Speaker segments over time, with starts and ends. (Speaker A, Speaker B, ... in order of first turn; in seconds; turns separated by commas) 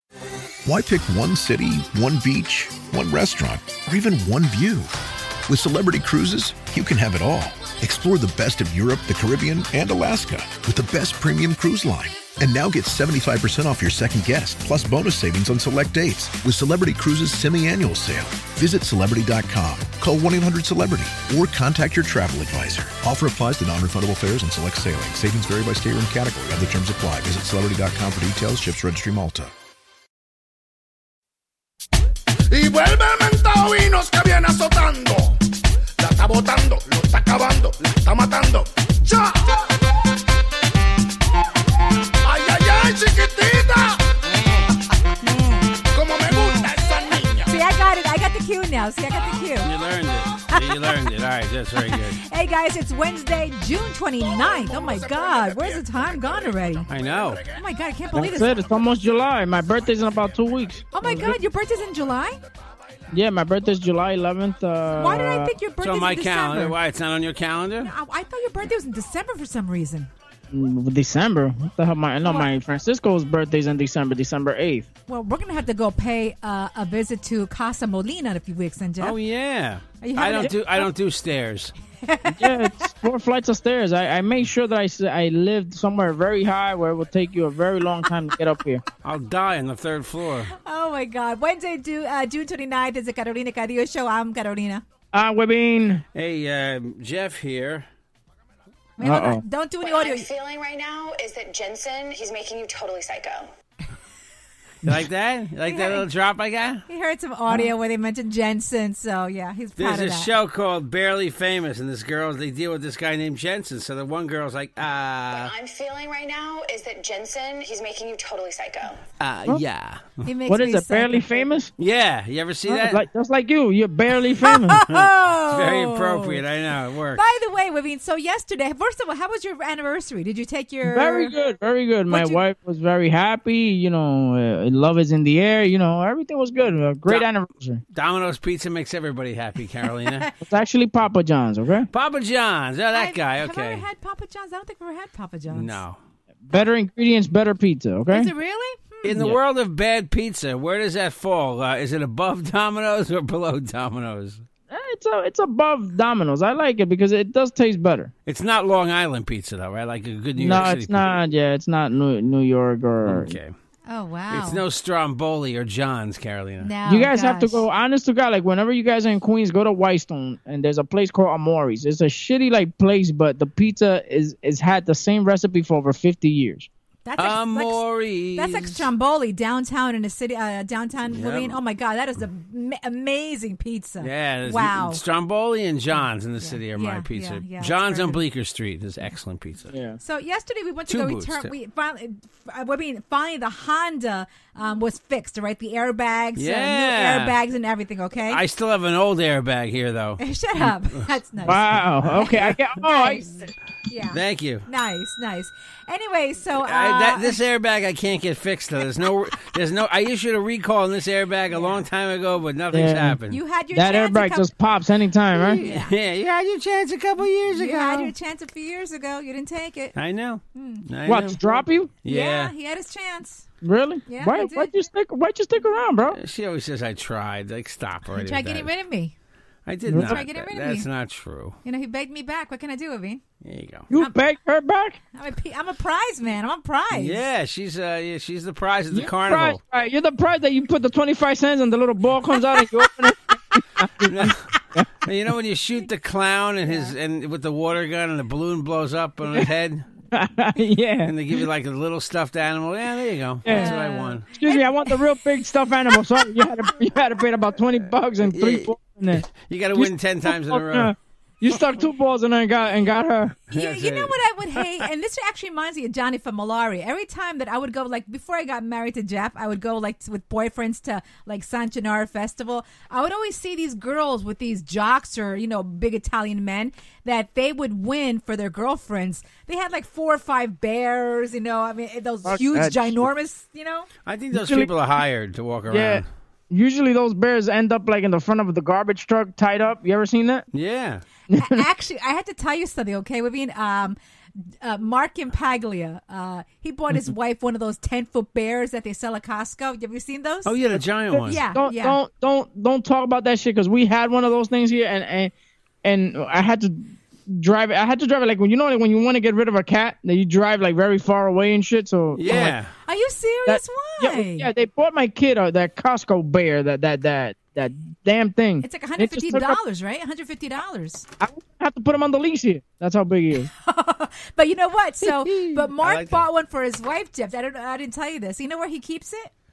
Speaker A: 0.6-4.9, Speaker A: 5.5-29.5, Speaker B: 32.5-35.4, Speaker B: 36.0-39.8, Speaker B: 42.2-44.1, Speaker C: 44.3-44.6, Speaker D: 45.2-45.6, Speaker B: 45.9-47.6, Speaker D: 47.5-49.7, Speaker C: 49.6-52.2, Speaker D: 50.5-50.9, Speaker D: 51.8-56.9, Speaker B: 54.2-57.6, Speaker C: 56.9-57.4, Speaker D: 57.5-58.6, Speaker E: 58.1-61.4, Speaker D: 60.9-62.4, Speaker E: 63.1-65.6, Speaker D: 65.0-66.8, Speaker C: 65.8-67.9, Speaker D: 67.8-70.1, Speaker E: 70.5-74.9, Speaker D: 72.2-72.5, Speaker D: 75.1-79.2, Speaker C: 79.0-81.7, Speaker D: 80.0-80.9, Speaker D: 82.0-82.9, Speaker E: 82.3-88.8, Speaker C: 89.0-90.5, Speaker D: 90.6-94.8, Speaker E: 95.1-96.0, Speaker C: 96.2-97.9, Speaker D: 99.0-100.3, Speaker E: 99.0-99.4, Speaker F: 99.8-103.5, Speaker C: 104.8-106.8, Speaker D: 105.7-106.0, Speaker D: 106.9-110.3, Speaker C: 109.8-115.5, Speaker F: 115.3-119.0, Speaker C: 119.2-120.2, Speaker D: 120.2-121.3, Speaker E: 120.5-121.7, Speaker C: 121.8-123.0, Speaker E: 122.7-124.8, Speaker D: 124.4-126.4, Speaker C: 124.9-127.2, Speaker D: 127.2-131.3, Speaker E: 130.8-137.8, Speaker D: 132.1-132.4, Speaker C: 137.9-140.3, Speaker D: 139.9-140.3, Speaker E: 140.4-141.9, Speaker C: 141.9-143.8, Speaker D: 142.9-145.8, Speaker C: 145.5-146.0, Speaker E: 146.5-148.3, Speaker D: 148.1-149.3, Speaker C: 149.0-154.4, Speaker E: 154.7-158.1, Speaker C: 158.3-161.1, Speaker E: 160.4-163.4, Speaker C: 163.0-163.5, Speaker D: 163.9-164.6, Speaker C: 164.3-166.7, Speaker D: 166.6-167.7, Speaker E: 166.9-176.7, Speaker D: 177.1-177.8, Speaker C: 177.2-178.9, Speaker D: 178.3-185.0, Speaker C: 181.1-181.6, Speaker C: 184.0-189.7, Speaker D: 186.0-188.2, Speaker E: 189.7-190.0, Speaker D: 190.0-198.4, Speaker C: 190.9-191.5, Speaker C: 196.4-197.3, Speaker C: 198.3-201.1, Speaker D: 200.2-207.4, Speaker E: 201.4-203.3, Speaker C: 204.1-204.7, Speaker C: 206.6-213.4, Speaker D: 211.5-211.8, Speaker E: 212.7-213.2, Speaker D: 213.3-214.5, Speaker E: 213.7-215.6, Speaker C: 215.3-218.1, Speaker D: 215.6-215.9, Speaker D: 217.5-219.9, Speaker C: 219.9-221.4, Speaker D: 220.6-220.8, Speaker E: 221.1-221.9, Speaker C: 222.0-222.5, Speaker D: 222.1-223.5, Speaker E: 223.6-226.2, Speaker D: 224.1-224.7, Speaker C: 226.1-228.7, Speaker D: 228.1-229.1, Speaker C: 229.7-231.6, Speaker E: 229.9-230.2, Speaker D: 230.0-230.9, Speaker D: 231.7-233.2, Speaker C: 233.4-233.9, Speaker E: 233.9-235.0, Speaker D: 235.2-237.2, Speaker C: 236.9-239.6, Speaker E: 238.9-244.9, Speaker D: 242.3-242.8, Speaker C: 244.1-244.5, Speaker C: 245.1-249.9, Speaker E: 250.1-251.4, Speaker C: 251.1-254.3, Speaker E: 253.4-253.8, Speaker D: 253.5-255.0, Speaker E: 254.3-263.4, Speaker D: 255.9-256.9, Speaker C: 258.2-260.9, Speaker D: 263.5-283.9, Speaker C: 263.5-264.9, Speaker E: 282.3-283.1, Speaker C: 284.1-286.1, Speaker E: 284.3-284.7, Speaker E: 285.7-290.4, Speaker C: 290.5-291.0, Speaker E: 291.3-291.6, Speaker D: 291.3-294.0, Speaker D: 294.6-300.5, Speaker C: 300.5-301.4, Speaker E: 300.7-305.3, Speaker D: 301.2-302.0, Speaker E: 305.8-312.6, Speaker C: 312.2-312.7, Speaker D: 312.9-314.5, Speaker E: 313.5-319.6, Speaker D: 318.6-321.1, Speaker E: 321.2-323.5, Speaker D: 323.5-329.3, Speaker C: 325.0-326.3